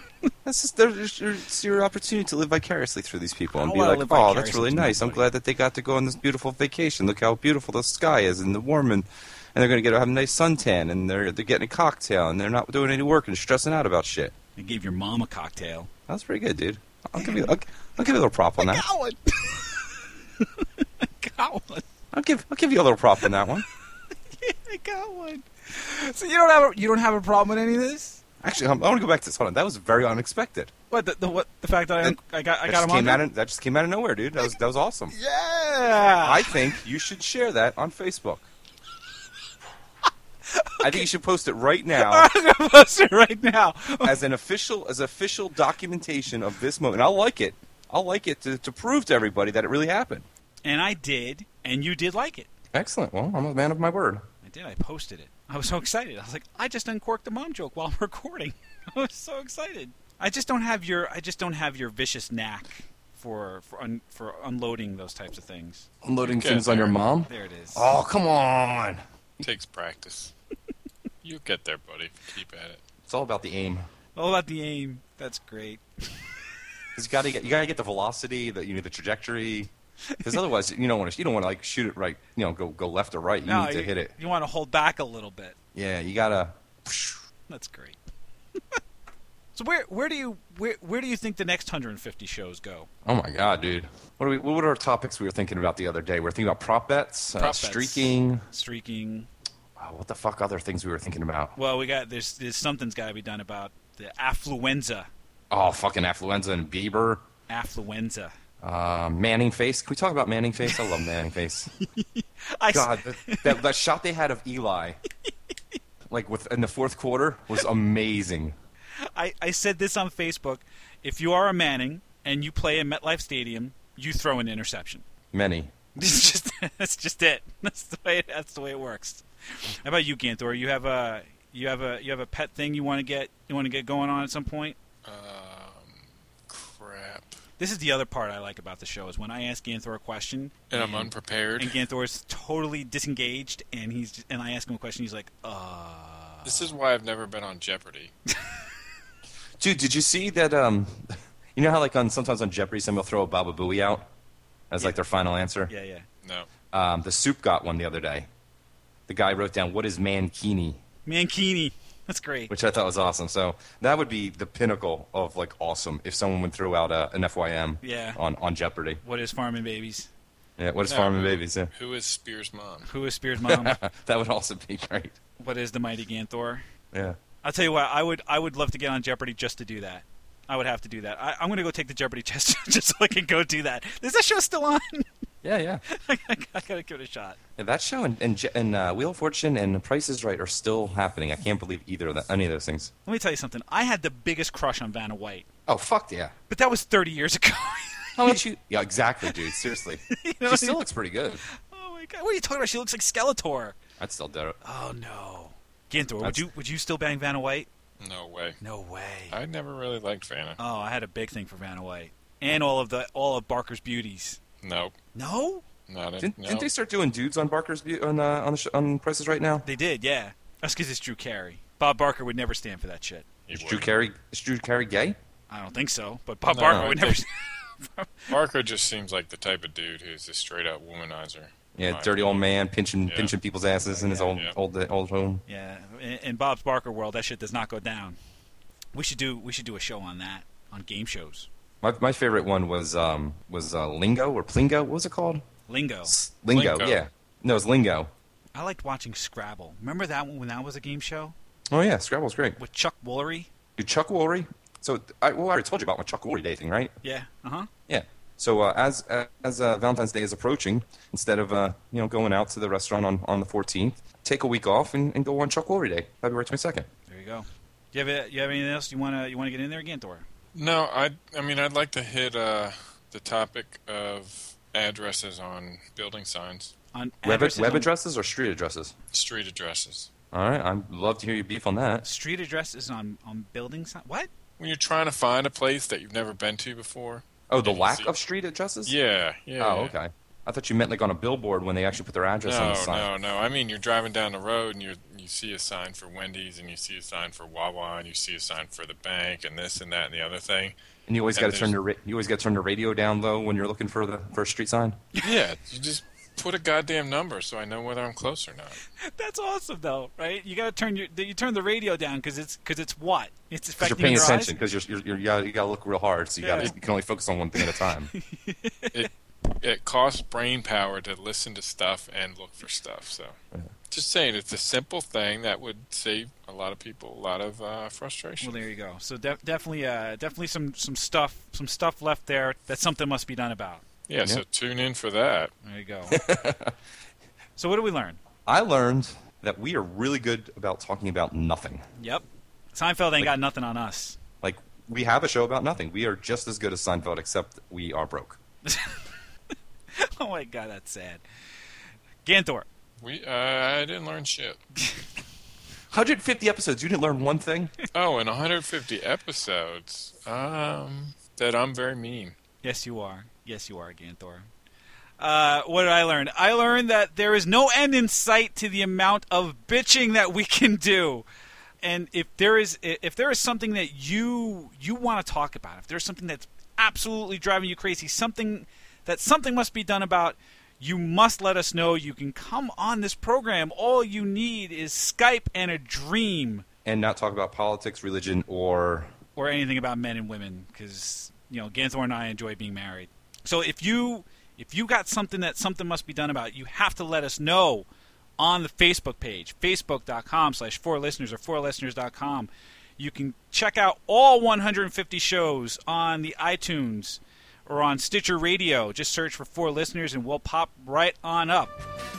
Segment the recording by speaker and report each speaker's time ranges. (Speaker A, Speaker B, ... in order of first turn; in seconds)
Speaker A: 0.4-14.3, 16.1-18.8, 22.1-23.6, 28.4-30.7, 32.0-35.1, 36.2-38.5, 40.8-42.3, 44.0-50.2, 52.7-54.2, 66.0-69.0, 73.1-73.9, 77.0-79.7, 80.2-84.1, 85.7-87.2, 93.0-98.4, 99.8-101.5, 105.5-107.2, 108.6-111.7, 112.7-115.0, 116.1-118.5, 125.3-125.7, 149.6-154.1, 154.7-155.7, 156.7-158.3, 159.1-160.8, 162.5-169.0, 170.6-171.7, 173.4-175.2, 176.9-177.2, 185.4-185.8, 187.6-192.9, 195.7-196.3, 198.2-201.4, 204.0-204.6, 216.2-219.7, 223.5-225.2, 226.7-226.9, 231.8-235.4, 241.8-245.4, 246.1-248.1, 251.7-252.6, 253.8-256.9, 257.9-266.9, 277.2-278.9, 280.3-282.0, 287.5-288.9, 289.6-293.1, 301.1-305.0, 313.8-318.1, 336.1-336.8, 338.4-341.8, 344.4-348.4, 355.9-357.7, 386.8-389.1
Speaker B: 3.5-5.2, 14.6-15.9, 17.2-17.5, 18.6-21.8, 24.4-28.2, 30.9-33.2, 35.1-36.6, 40.5-41.1, 41.9-44.1, 50.6-52.5, 54.4-65.9, 67.3-67.9, 74.2-76.3, 83.5-85.5, 87.5-88.0, 89.5-92.9, 97.4-99.3, 101.5-105.1, 107.5-108.3, 111.8-113.6, 119.1-125.0, 126.0-134.8, 137.6-146.7, 155.7-156.1, 161.1-162.5, 167.8-168.2, 169.0-170.1, 172.8-173.8, 175.4-176.6, 177.4-185.1, 185.9-187.4, 193.1-195.5, 196.5-198.4, 200.1-200.8, 201.5-203.8, 204.6-207.7, 208.6-209.3, 210.6-214.4, 215.1-215.6, 219.6-223.2, 225.5-228.3, 233.8-234.4, 235.5-238.2, 238.9-241.5, 245.7-246.1, 248.5-251.3, 252.6-253.5, 257.0-257.7, 267.1-270.2, 276.9-277.9, 282.0-284.3, 309.0-314.5, 316.4-316.7, 317.6-319.1, 328.4-333.8, 335.6-336.2, 337.6-338.2, 342.0-344.2, 348.6-349.0, 349.9-351.2, 352.2-352.7, 362.6-364.5, 365.2-371.2, 371.8-386.6, 389.4-397.9, 398.4-411.8
Speaker C: 66.2-67.0, 69.4-70.3, 71.2-72.8, 135.0-137.4, 140.7-141.8, 146.4-148.1, 156.2-156.5, 170.9-172.9, 208.0-208.6, 209.3-210.6, 214.6-214.9, 215.9-216.7, 223.5-223.9, 226.5-227.2, 228.3-232.4, 233.1-233.3, 246.5-247.0, 270.5-276.7, 279.1-280.1, 284.6-288.1, 288.9-289.9, 292.4-300.8, 301.3-301.7, 305.2-308.8, 318.9-323.4, 323.9-328.6, 334.1-335.5, 353.0-354.6, 357.9-362.3